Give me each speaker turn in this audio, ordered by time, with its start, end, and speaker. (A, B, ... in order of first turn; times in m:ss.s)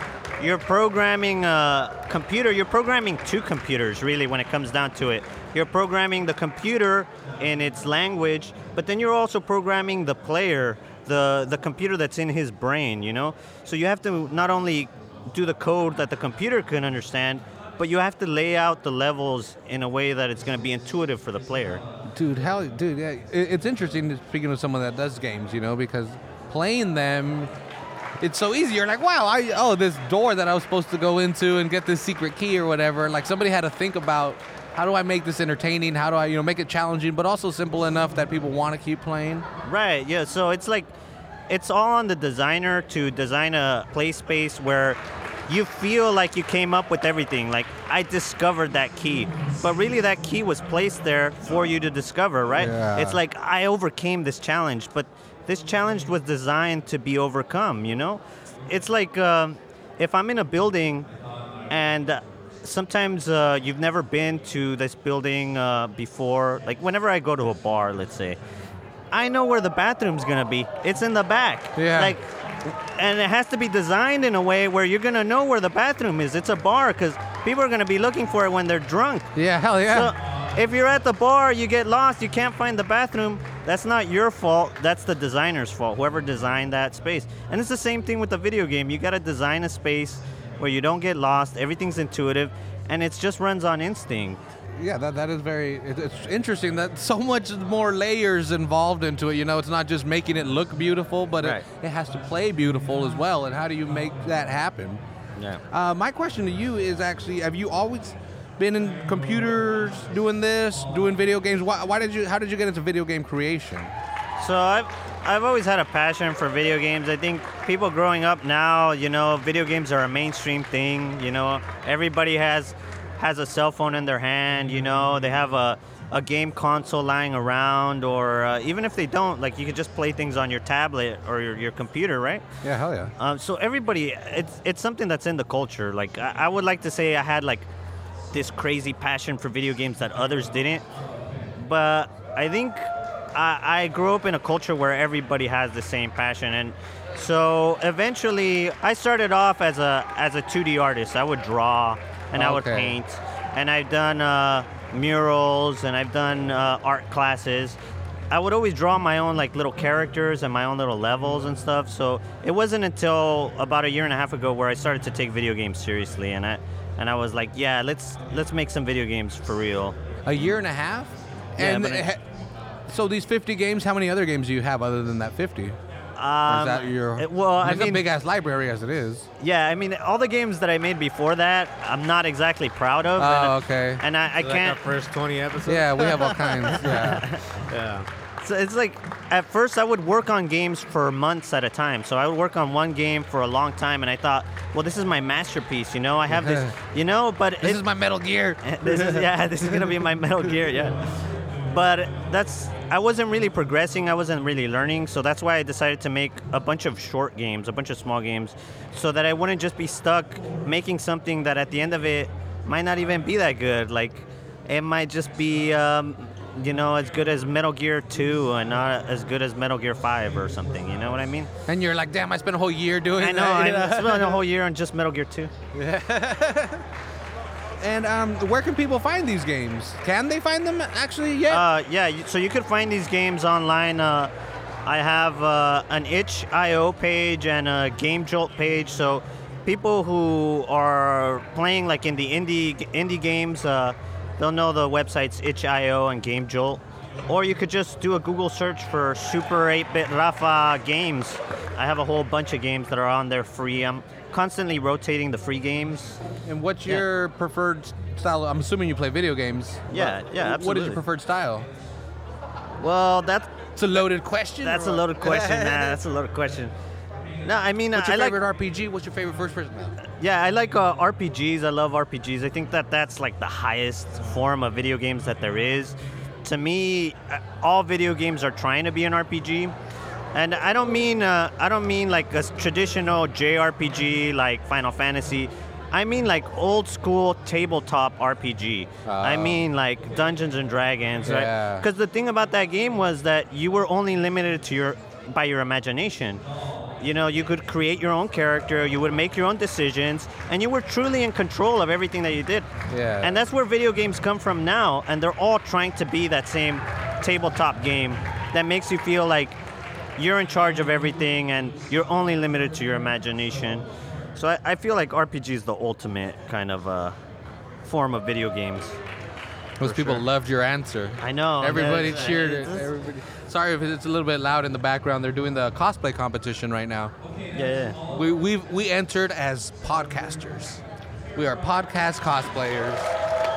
0:00.4-0:21.8 A
0:22.1-0:27.5 B
0:28.2-0:39.4 B
0:39.6-0:40.9 A
0:41.5-1:01.1 A
0:52.6-0:53.2 B
1:01.7-1:08.4 A
1:09.1-1:19.3 A
1:11.8-1:12.2 B
1:19.3-1:20.1 B
1:19.8-1:34.4 A
1:34.8-1:45.0 B
1:41.4-1:41.6 A
1:45.4-1:45.6 A
1:45.7-1:53.9 B
1:54.4-2:12.4 A
2:12.6-2:13.1 B
2:13.2-2:17.7 A
2:18.3-2:20.8 A
2:21.6-2:37.8 A
2:32.3-2:33.0 B
2:38.3-2:50.0 A
2:50.2-2:52.2 B
2:51.6-2:52.1 A
2:52.9-2:55.8 B
2:56.2-2:58.0 A
2:56.5-2:59.3 B
2:59.4-3:04.8 A
3:03.2-3:04.0 B
3:04.3-3:06.8 C
3:05.7-3:07.3 B
3:06.8-3:07.6 A
3:07.7-3:08.1 C
3:08.4-3:17.8 A
3:16.3-3:16.7 B
3:17.6-3:19.2 B
3:18.6-3:21.0 A
3:21.7-3:41.5 A
3:41.7-3:44.4 B
3:43.2-3:45.5 A
3:45.7-3:46.8 B
3:47.8-3:51.6 B
3:51.5-3:54.3 A
3:54.8-4:16.2 A
4:16.4-4:21.7 B
4:19.9-4:21.0 A
4:22.8-4:23.5 A
4:23.8-4:26.0 B
4:24.6-4:26.7 A
4:27.4-4:28.4 A
4:27.9-4:30.0 B
4:30.1-4:39.7 A
4:40.3-4:56.4 A
4:49.0-4:49.7 B
4:51.2-4:51.9 B
4:57.0-5:02.7 A
5:02.9-5:03.3 B
5:03.2-5:09.6 A
5:10.2-5:17.2 A
5:17.8-5:19.0 A
5:19.8-5:27.1 B
5:19.8-5:20.2 A
5:21.2-5:22.9 A
5:27.5-5:28.0 A
5:28.1-5:30.8 B
5:31.4-5:33.1 B